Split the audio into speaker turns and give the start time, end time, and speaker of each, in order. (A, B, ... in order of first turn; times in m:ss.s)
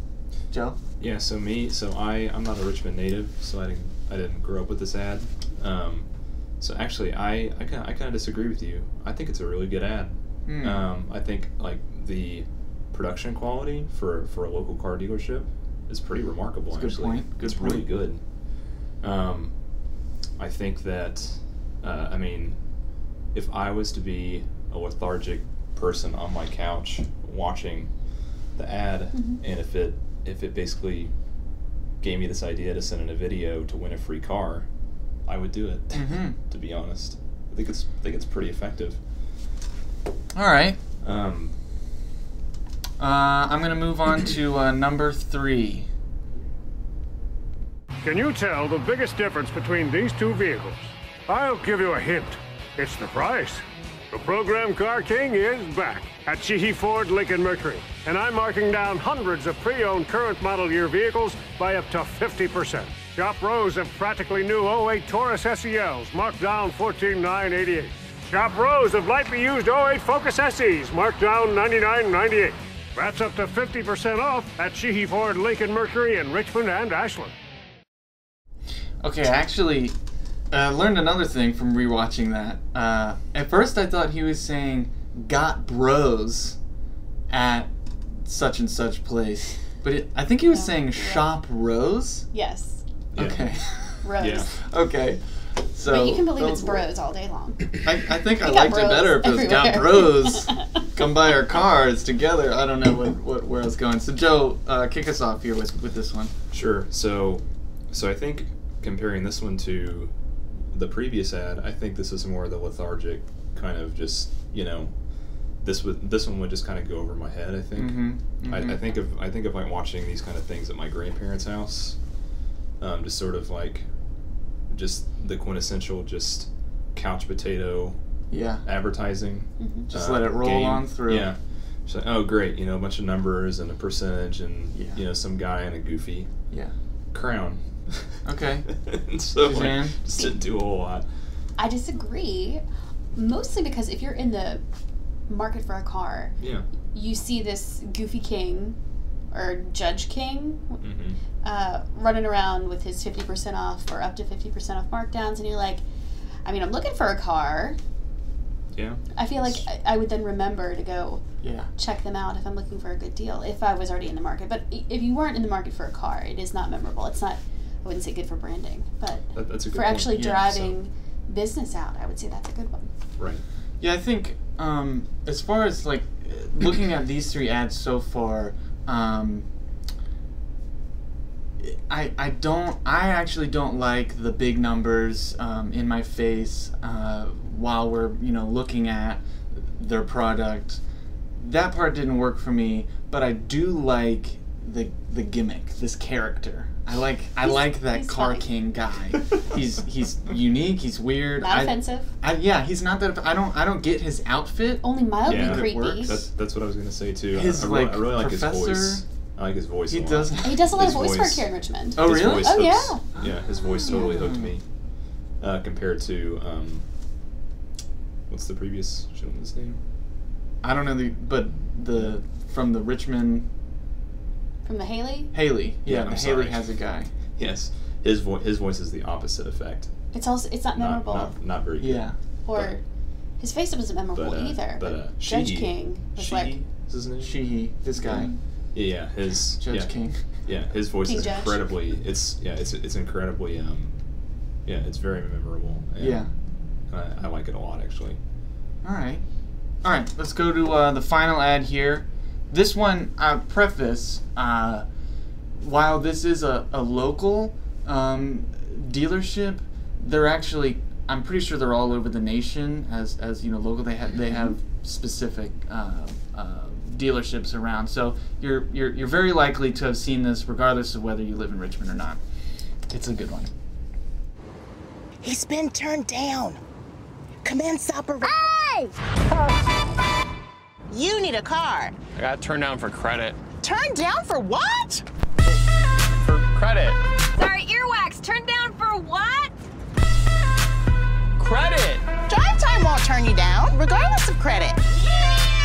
0:00.5-0:00.8 A
0:01.0-0:06.1 B
0:06.6-0:18.2 B
0:10.5-0:10.8 A
0:16.7-0:17.9 A
0:19.0-0:19.5 B
0:20.4-0:22.6 B
0:23.3-0:27.9 B
0:28.6-0:31.1 B
0:29.1-0:29.4 C
0:32.0-0:34.7 B
0:35.3-0:39.0 B
0:35.9-0:36.4 A
0:40.3-0:40.8 A
0:41.0-0:41.5 B
0:43.0-0:45.9 A
0:48.0-1:17.3 D
1:19.0-1:20.0 A
1:20.5-1:26.6 A
1:27.3-1:27.7 A
1:28.2-1:32.3 A
1:30.5-1:31.3 C
1:32.3-1:32.8 C
1:33.2-1:33.5 B
1:33.2-1:35.2 A
1:34.0-1:34.5 C
1:34.2-1:34.5 B
1:35.7-1:36.9 A
1:35.8-1:37.8 C
1:37.8-1:46.3 A
1:38.4-1:40.6 C
1:46.5-1:50.1 B
1:50.7-1:54.9 B
1:55.6-2:02.0 B
1:57.8-1:58.9 A
2:02.8-2:03.9 B
2:04.7-2:08.0 B
2:08.3-2:08.6 A
2:08.6-2:16.3 B
2:09.6-2:09.9 C
2:09.9-2:11.3 A
2:14.7-2:15.0 A
2:17.1-2:18.2 B
2:18.2-2:18.7 A
2:18.7-2:21.0 B
2:19.4-2:20.0 A
2:21.6-2:22.6 C
2:23.1-2:24.6 C
2:25.3-2:26.3 C
2:26.4-2:26.7 B
2:26.9-2:28.8 C
2:29.3-2:30.8 C
2:30.8-2:31.2 B
2:31.4-2:35.8 C
2:36.4-2:37.8 C
2:38.7-2:39.0 B
2:39.1-2:41.2 C
2:41.4-2:41.7 A
2:41.8-2:52.9 C
2:49.3-2:50.8 B
2:50.2-2:50.4 A
2:53.8-2:59.5 A
3:01.6-3:09.2 A
3:09.8-3:10.8 A
3:11.4-3:26.3 A
3:17.4-3:18.5 C
3:21.4-3:22.1 C
3:24.8-3:26.2 C
3:25.2-3:34.6 B
3:27.3-3:29.0 A
3:29.9-3:31.0 A
3:30.4-3:33.0 C
3:32.0-3:32.6 A
3:33.8-3:34.5 A
3:35.4-3:36.8 B
3:38.3-3:39.8 B
3:40.6-3:43.5 A
3:44.6-3:45.3 C
3:45.3-3:47.1 A
3:45.9-3:46.6 B
3:47.4-3:49.9 B
3:50.1-3:51.4 C
3:50.8-3:52.8 B
3:51.8-3:52.2 A
3:52.5-3:52.8 C
3:53.4-3:56.6 C
3:54.1-3:57.4 B
3:57.2-3:58.3 A
3:58.0-3:59.9 B
3:59.6-4:00.2 A
4:00.5-4:04.0 B
4:01.0-4:01.6 C
4:04.7-4:06.2 B
4:06.0-4:06.3 A
4:06.9-4:08.2 B
4:08.8-4:09.2 A
4:09.8-4:14.8 A
4:15.6-4:32.2 A
4:32.9-4:33.5 A
4:35.2-4:36.6 E
4:37.4-4:38.9 E
4:40.9-4:42.0 E
4:42.2-4:43.4 F
4:43.5-4:45.0 E
4:46.2-4:47.0 F
4:47.4-4:49.4 G
4:51.4-4:52.1 F
4:52.2-4:54.8 E